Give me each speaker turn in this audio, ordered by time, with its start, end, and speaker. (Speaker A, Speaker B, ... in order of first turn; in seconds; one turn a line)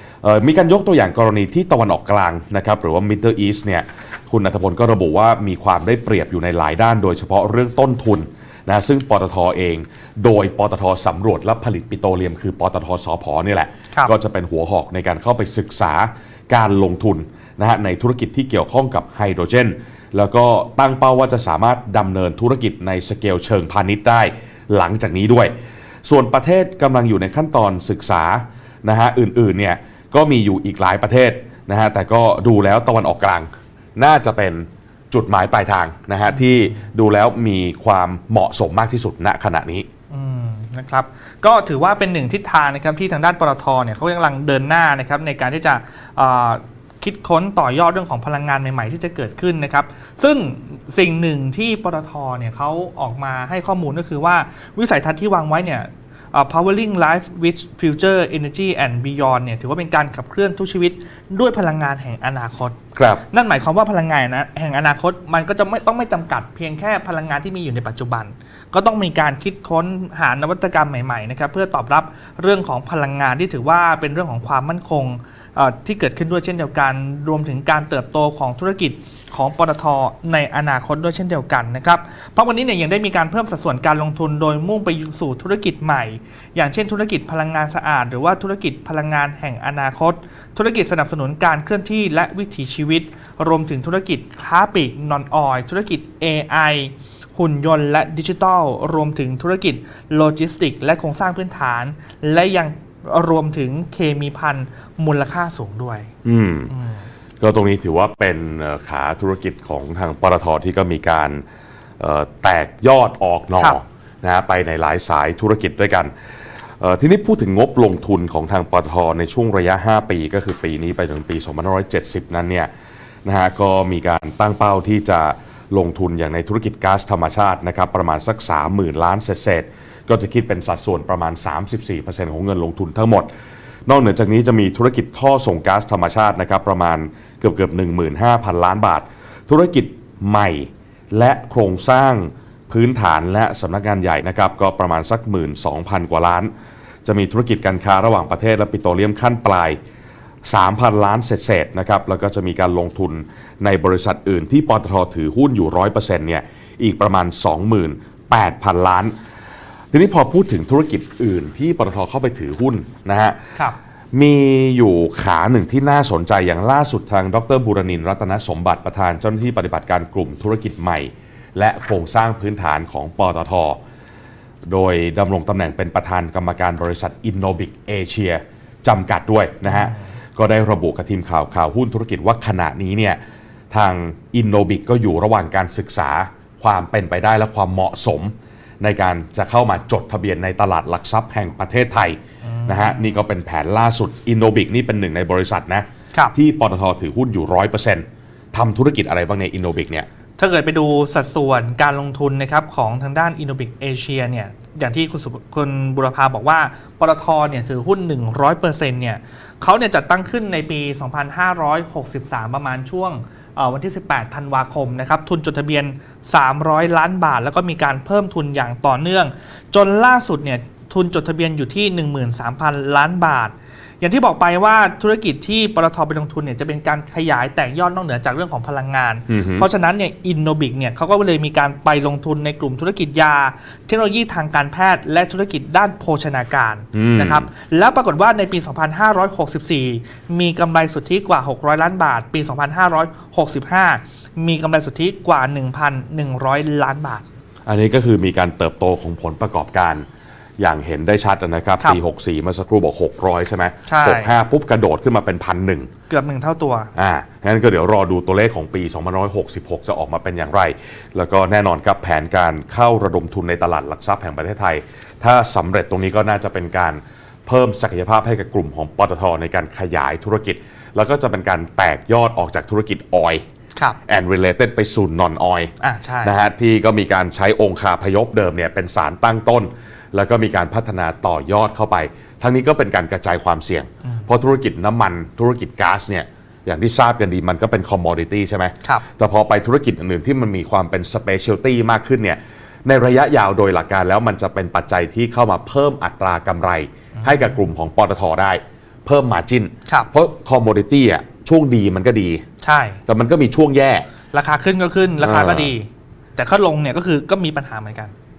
Speaker A: 0.2-25.5
Speaker A: 26.1-39.9
Speaker B: 36.3-36.8
Speaker B: 40.1-62.8
Speaker A: 63.0-63.2
Speaker B: 63.3-106.1
Speaker A: 106.2-106.7
Speaker B: 106.7-107.1
Speaker A: 107.4-111.4
Speaker A: 112.0-116.1
Speaker A: 116.8-122.7
Speaker A: 123.3-133.3
Speaker A: 133.9-146.5
Speaker A: 147.1-149.8
Speaker A: 150.5-159.1
Speaker A: 159.9-163.4
Speaker A: 164.1-173.8
Speaker A: 174.7-183.2
Speaker B: 179.7-180.0
Speaker A: 183.7-200.1
Speaker B: 192.4-193.0
Speaker B: 200.4-247.2
Speaker A: 229.3-229.7
Speaker A: 236.9-237.5
Speaker A: 247.7-250.1
Speaker A: 250.6-255.9
Speaker B: 253.9-254.3
Speaker B: 256.1-256.9
Speaker A: 256.9-273.4
Speaker A: 274.1-275.7
Speaker B: 275.8-276.4
Speaker A: 276.2-302.4
Speaker B: 297.2-297.6
Speaker B: 302.6-303.0
Speaker A: 303.1-304.1
Speaker B: 304.3-308.1
Speaker A: 305.2-305.7